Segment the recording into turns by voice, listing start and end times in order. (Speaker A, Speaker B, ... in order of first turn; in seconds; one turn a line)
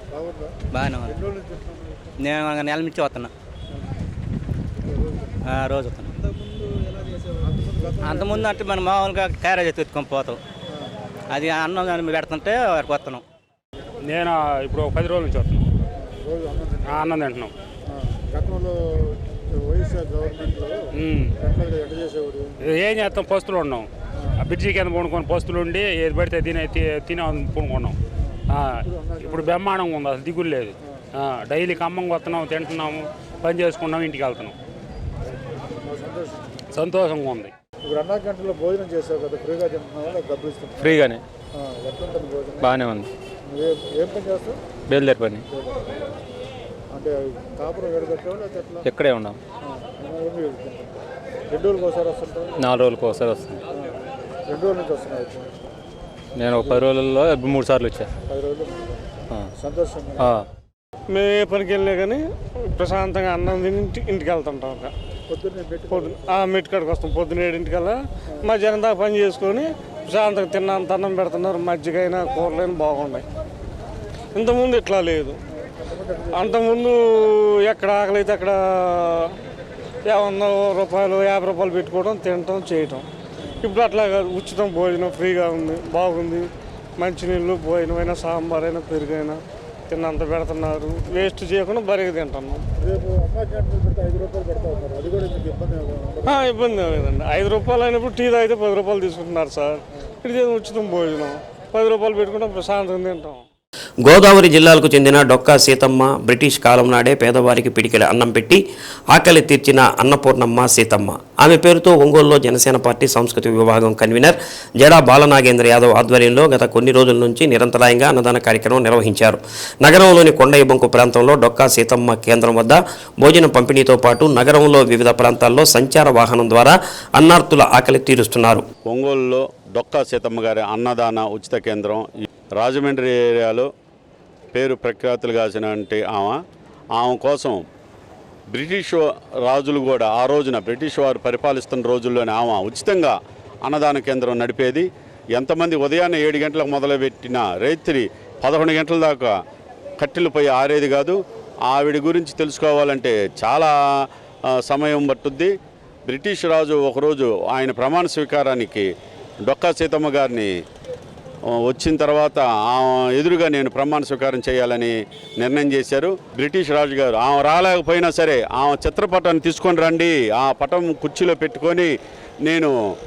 Speaker A: 0.1-0.5
Speaker B: 0.7-1.2
Speaker A: 1.1-2.1
Speaker B: 2.2-3.3
Speaker A: 4.8-5.3
Speaker B: 5.4-6.2
Speaker A: 7.4-8.7
Speaker B: 8.0-10.4
Speaker B: 11.3-13.2
Speaker C: 14.0-15.7
Speaker A: 16.0-16.9
Speaker C: 16.9-17.5
Speaker A: 17.9-20.8
Speaker C: 20.9-21.3
Speaker A: 21.4-22.5
Speaker C: 22.6-28.0
Speaker A: 28.2-29.5
Speaker C: 28.5-34.5
Speaker A: 35.8-36.6
Speaker C: 36.7-37.5
Speaker A: 37.8-40.9
Speaker D: 40.8-41.2
Speaker A: 41.5-42.8
Speaker D: 42.6-43.1
Speaker A: 43.4-44.6
Speaker D: 44.9-45.5
Speaker A: 45.5-45.9
Speaker A: 46.9-48.9
Speaker D: 48.8-49.4
Speaker A: 49.6-52.6
Speaker D: 52.6-53.6
Speaker A: 54.5-55.7
Speaker D: 56.4-58.1
Speaker A: 58.3-60.3
Speaker D: 60.2-60.5
Speaker E: 61.1-64.9
Speaker A: 65.3-66.3
Speaker E: 65.9-73.2
Speaker E: 74.3-75.4
Speaker A: 75.5-76.7
Speaker E: 76.3-79.4
Speaker E: 80.0-83.1
Speaker E: 83.6-92.7
Speaker A: 92.8-96.4
Speaker E: 96.3-103.5
Speaker F: 104.0-128.7
Speaker G: 128.9-133.7
Speaker G: 134.5-136.4
Speaker G: 136.9-137.6
Speaker G: 138.5-149.3
Speaker G: 150.0-153.7
Speaker G: 154.5-155.5
Speaker G: 156.1-158.9
Speaker G: 159.4-160.5
Speaker G: 161.5-171.9
Speaker G: 172.4-172.7